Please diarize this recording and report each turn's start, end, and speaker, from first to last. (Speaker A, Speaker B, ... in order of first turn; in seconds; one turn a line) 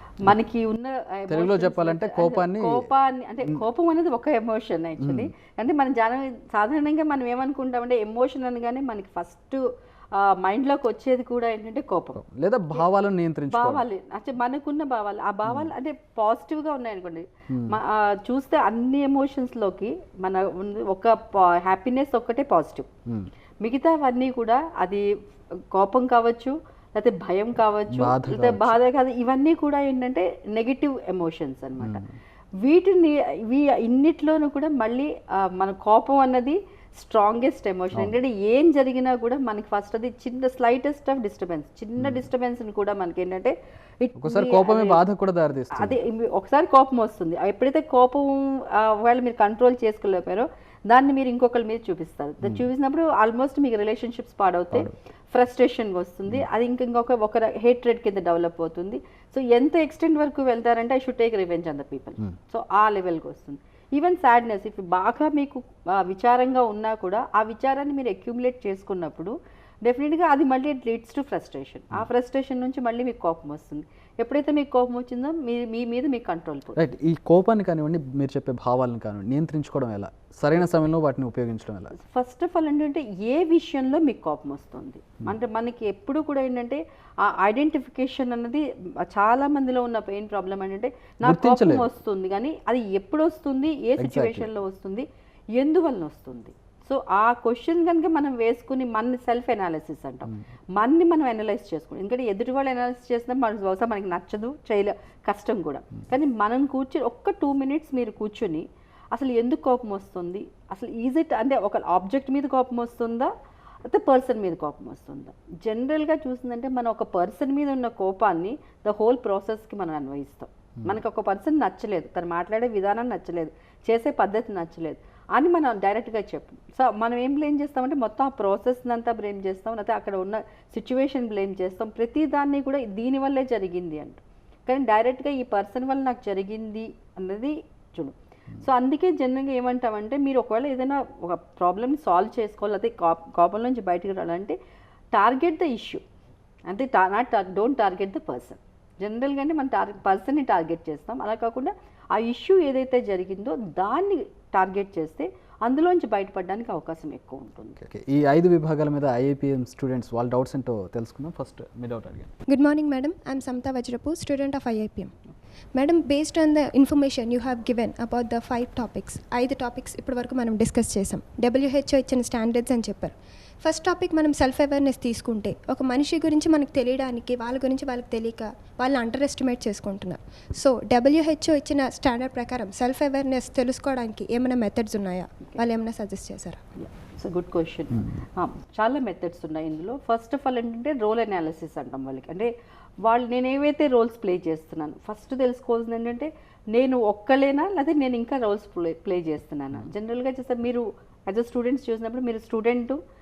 Speaker A: 0.2-9.6
Speaker B: 1.3-2.8
Speaker B: 5.0-5.3
Speaker A: 10.2-12.2
Speaker B: 12.2-13.8
Speaker A: 13.5-22.9
Speaker B: 17.5-17.8
Speaker A: 23.6-25.1
Speaker A: 25.7-32.0
Speaker B: 27.9-28.8
Speaker B: 31.8-32.1
Speaker A: 32.6-45.0
Speaker B: 44.2-46.0
Speaker A: 45.8-69.3
Speaker A: 69.8-76.8
Speaker B: 76.8-81.9
Speaker A: 82.0-113.3
Speaker B: 91.2-91.9
Speaker B: 94.0-94.5
Speaker A: 113.9-144.6
Speaker A: 145.1-146.0
Speaker A: 146.7-157.8
Speaker B: 157.8-162.3
Speaker C: 162.5-165.1
Speaker C: 165.8-186.6
Speaker A: 186.8-192.5
Speaker A: 193.1-203.0